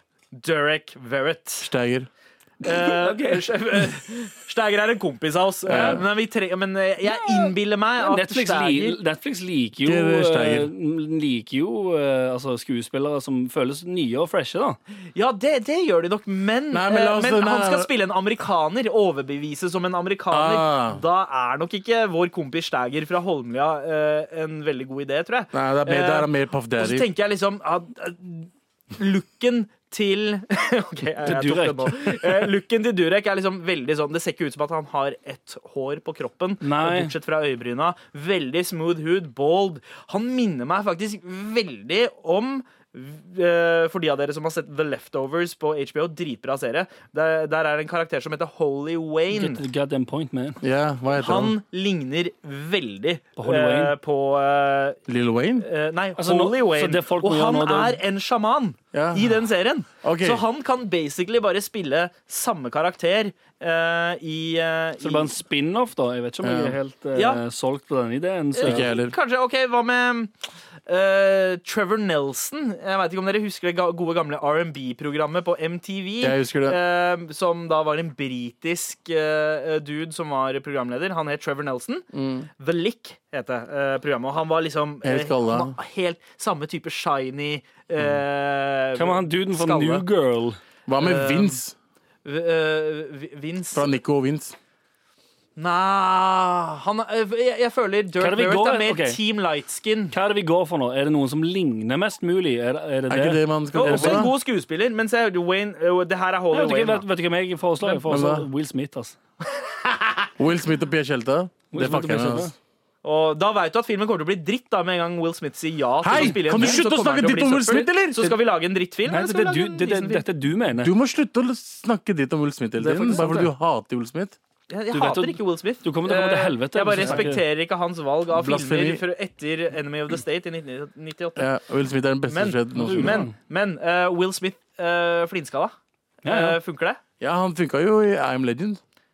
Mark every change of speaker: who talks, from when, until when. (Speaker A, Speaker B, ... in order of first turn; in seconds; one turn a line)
Speaker A: 0.3-1.7
Speaker B: 1.6-2.1
Speaker A: 2.6-9.0
Speaker C: 2.7-3.4
Speaker B: 5.7-6.0
Speaker C: 5.7-6.0
Speaker C: 7.1-14.8
Speaker B: 9.8-10.7
Speaker A: 15.1-49.6
Speaker B: 16.7-17.9
Speaker B: 20.3-21.0
Speaker B: 25.5-27.1
Speaker C: 31.2-32.5
Speaker C: 36.6-37.1
Speaker C: 49.3-50.6
Speaker B: 50.6-51.5
Speaker A: 51.1-55.0
Speaker C: 53.4-54.0
Speaker B: 55.1-55.6
Speaker A: 55.6-65.3
Speaker C: 56.2-58.0
Speaker B: 58.9-59.4
Speaker B: 59.9-60.4
Speaker C: 65.0-68.9
Speaker B: 66.4-66.8
Speaker A: 67.1-67.4
Speaker A: 68.5-70.3
Speaker B: 68.6-69.1
Speaker A: 70.9-90.0
Speaker B: 76.2-76.8
Speaker B: 82.1-82.5
Speaker B: 85.0-85.7
Speaker C: 89.0-90.6
Speaker B: 90.9-91.7
Speaker A: 91.0-91.6
Speaker A: 92.2-93.9
Speaker B: 93.7-94.5
Speaker A: 95.5-100.2
Speaker C: 98.2-99.2
Speaker C: 100.1-104.2
Speaker B: 103.1-104.3
Speaker A: 103.7-107.0
Speaker C: 106.5-109.2
Speaker B: 108.1-108.5
Speaker A: 109.6-110.3
Speaker B: 110.4-112.5
Speaker C: 111.7-112.5
Speaker A: 113.0-120.2
Speaker B: 116.0-118.4
Speaker C: 116.1-116.8
Speaker C: 119.0-120.9
Speaker B: 120.7-124.4
Speaker C: 122.8-123.5
Speaker A: 124.7-131.5
Speaker C: 124.9-127.4
Speaker B: 127.0-127.3
Speaker B: 128.3-129.0
Speaker B: 131.3-133.3
Speaker A: 132.3-137.0
Speaker C: 132.7-133.3
Speaker C: 136.2-136.6
Speaker B: 137.2-138.8